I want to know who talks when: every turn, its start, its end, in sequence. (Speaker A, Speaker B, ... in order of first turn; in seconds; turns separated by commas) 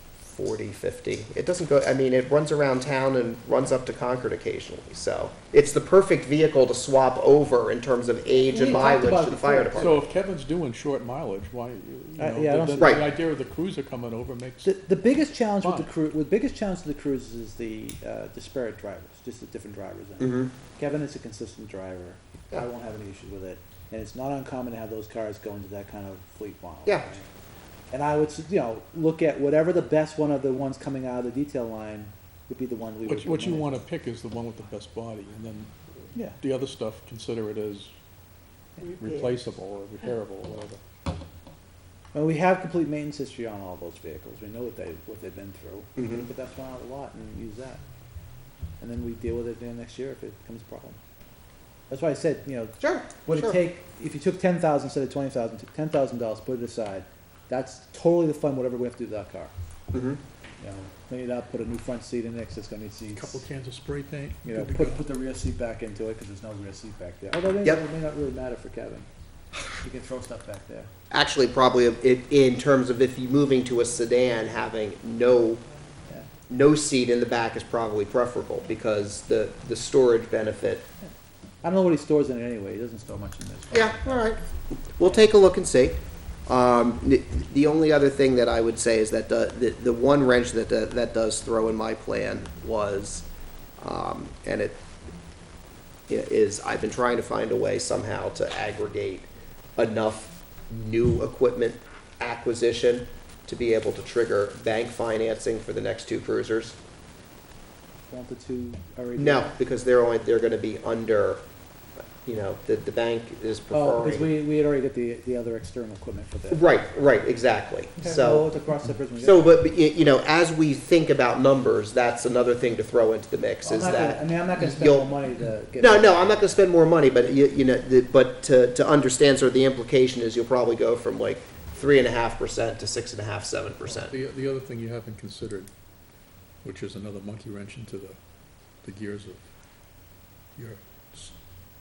Speaker A: 0.3-10.0, Speaker B: 8.5-10.0, Speaker C: 9.8-14.7, Speaker B: 12.2-13.1, Speaker B: 14.6-27.3, Speaker C: 15.6-15.9, Speaker A: 20.2-20.5, Speaker A: 26.9-27.1, Speaker B: 27.9-33.7, Speaker C: 33.0-35.7, Speaker C: 36.2-37.9, Speaker C: 38.9-40.8, Speaker B: 42.1-47.8, Speaker A: 46.0-46.3, Speaker B: 48.8-51.0, Speaker B: 51.9-59.5, Speaker A: 52.8-53.6, Speaker A: 59.9-60.2, Speaker B: 60.6-63.4, Speaker C: 63.1-65.0, Speaker B: 64.4-69.1, Speaker B: 69.8-70.9, Speaker A: 71.1-75.6, Speaker A: 76.5-80.8, Speaker B: 81.6-84.3, Speaker A: 83.7-84.4, Speaker A: 85.0-93.2, Speaker A: 93.8-94.8, Speaker A: 96.1-106.8, Speaker B: 108.1-109.6, Speaker A: 109.2-111.4, Speaker A: 112.2-114.3, Speaker B: 113.7-116.7, Speaker A: 116.5-118.5, Speaker B: 118.0-119.6, Speaker A: 119.2-125.2, Speaker B: 123.6-126.6, Speaker A: 125.8-134.2, Speaker C: 134.1-135.7, Speaker C: 136.6-138.2, Speaker C: 138.8-139.5, Speaker C: 140.6-141.4